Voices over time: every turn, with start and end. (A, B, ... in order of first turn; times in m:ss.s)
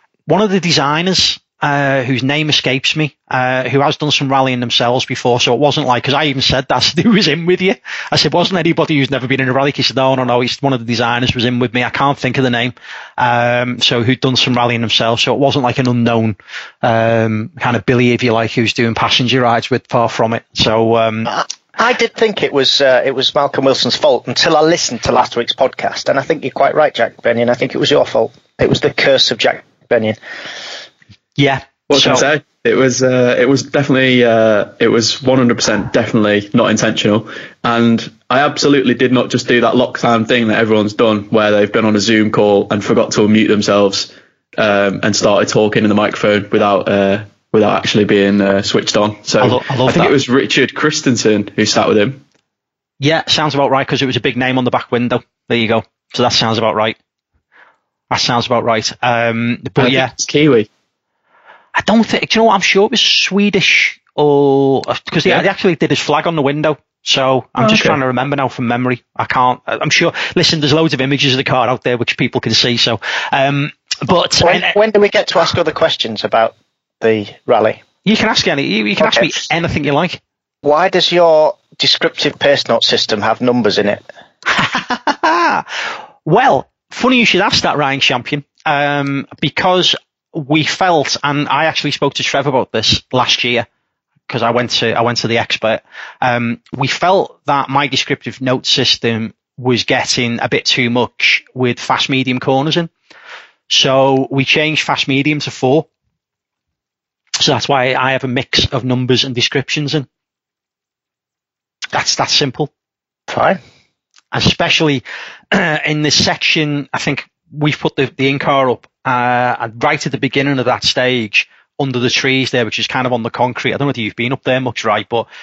0:00.3-0:21.3 A
0:21.3-0:30.2 B
0:31.4-0:32.3 A
0:31.9-0:52.2 C
0:49.4-0:50.1 A
0:53.0-0:57.0 A
0:58.1-1:00.1 A
0:59.8-1:00.7 C
1:01.8-1:14.8 A
1:07.6-1:08.0 C
1:14.4-1:17.8 B
1:18.0-1:20.2 A
1:19.0-1:19.3 B
1:20.6-1:24.0 B
1:24.5-1:33.6 A
1:34.3-1:42.9 A
1:43.7-1:45.9 A
1:47.4-1:50.1 A
1:51.9-1:52.7 A
1:53.3-1:53.6 B
1:54.3-2:05.2 A